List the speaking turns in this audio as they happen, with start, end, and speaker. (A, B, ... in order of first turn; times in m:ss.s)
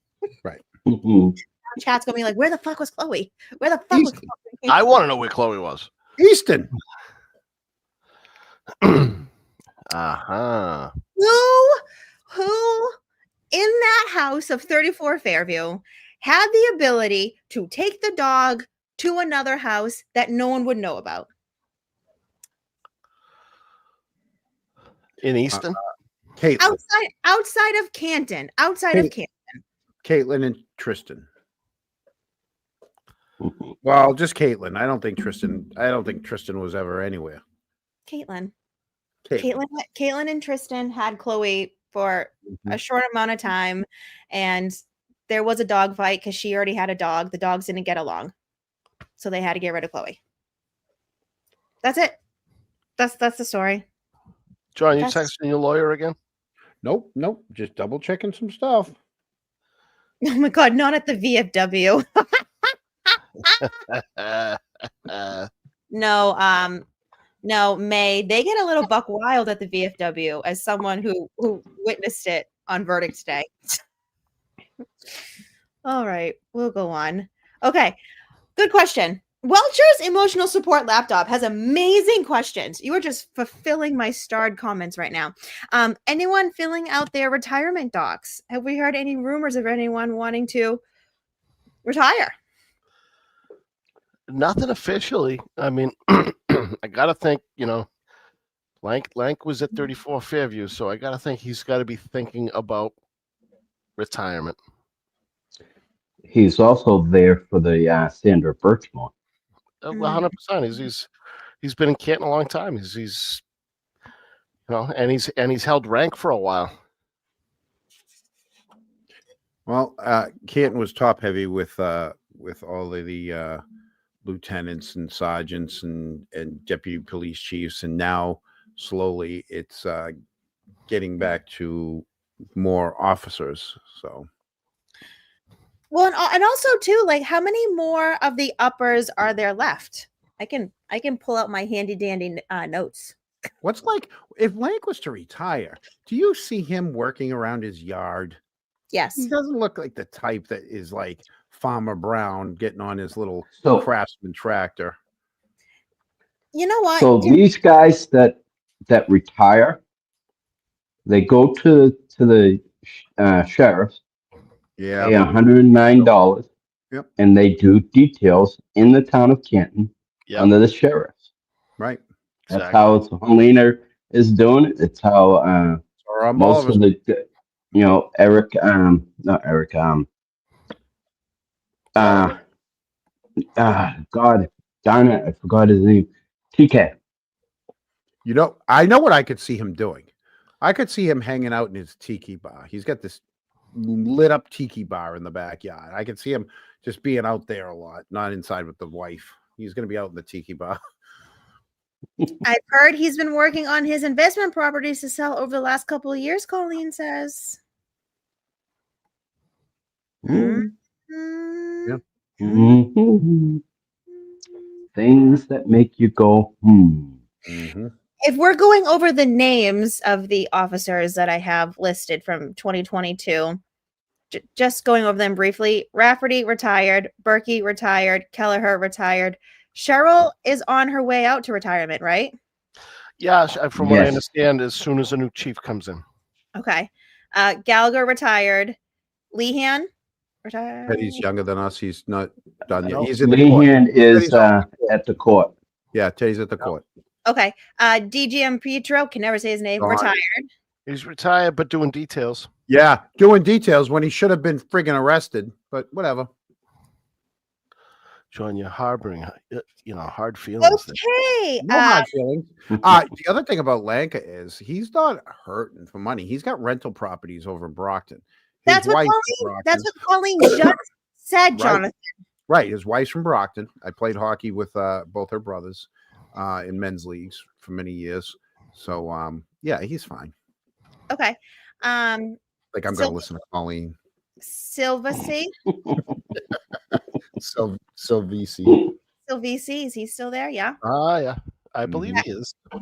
0:00.9-0:01.4 A
0:01.8-0:04.8 B
0:03.9-0:04.2 C
0:04.7-0:05.9 D
0:06.2-0:06.7 C
0:08.8-0:09.2 D
0:09.9-0:10.9 D
0:11.2-0:12.9 B
0:13.5-0:21.3 B
0:25.2-0:25.8 D
0:26.4-0:26.8 C
0:26.6-0:29.6 B
0:30.0-0:31.3 C
0:33.8-0:37.4 C
0:38.1-0:38.5 B
0:39.4-0:44.8 B
0:42.5-0:42.8 C
0:45.3-0:48.3 B
0:49.2-0:50.2 B
0:51.8-0:52.2 B
0:53.0-0:53.8 B
0:54.8-0:56.2 D
0:55.0-0:55.3 B
0:56.8-0:59.0 C
1:00.2-1:02.7 B
1:03.6-1:05.5 D
1:05.9-1:06.9 B
1:07.4-1:13.8 B
1:15.8-1:18.0 B
1:18.6-1:30.8 B
1:31.8-1:32.3 B
1:34.3-1:37.9 D
1:38.8-1:42.9 D
1:44.0-1:44.6 D
1:46.3-1:49.1 A
1:49.8-1:51.1 D
1:49.9-1:50.3 B
1:51.6-1:53.4 D
1:54.7-1:56.7 D
1:59.7-2:03.6 C
2:04.2-2:10.1 C
2:10.9-2:14.3 C
2:15.9-2:23.2 B
2:23.6-2:28.4 C
2:28.9-2:29.3 B
2:29.2-2:35.0 C
2:33.6-2:33.9 A
2:36.5-2:37.4 B
2:37.0-2:39.8 A
2:41.1-2:44.0 A
2:44.8-2:45.2 C
2:45.0-2:46.5 A
2:47.2-2:51.2 A
2:50.3-2:50.5 D
2:52.5-2:53.0 D
2:52.5-2:55.8 A
2:56.0-2:56.8 C
2:56.4-2:57.2 A
2:57.8-3:00.1 A
3:02.0-3:02.4 A
3:02.0-3:02.3 C
3:03.6-3:07.0 A
3:08.2-3:10.1 C
3:10.6-3:13.2 C
3:13.7-3:20.8 C
3:22.4-3:27.6 B
3:30.2-3:30.7 A
3:30.3-3:32.8 B
3:32.4-3:33.6 A
3:35.0-3:37.2 A
3:37.5-3:37.9 C
3:38.2-3:43.6 B
3:44.3-3:52.4 B
3:53.2-3:56.0 D
3:53.8-3:54.2 A
3:56.6-3:58.8 B
3:59.3-3:59.9 B
4:00.4-4:01.2 B
4:00.9-4:04.9 C
4:03.0-4:05.5 A
4:05.9-4:06.8 C
4:07.3-4:10.5 B
4:09.8-4:10.1 C
4:10.9-4:12.5 D
4:12.7-4:16.3 C
4:18.3-4:21.0 D
4:20.6-4:22.1 B
4:21.6-4:29.9 C
4:28.7-4:32.0 B
4:31.6-4:31.8 C
4:32.5-4:40.3 C
4:41.1-4:42.4 B
4:42.7-4:44.0 C
4:42.9-4:43.2 B
4:44.4-4:45.5 B
4:47.4-4:48.9 C
4:49.3-4:50.8 B
4:50.8-4:52.6 D
4:51.8-4:52.2 C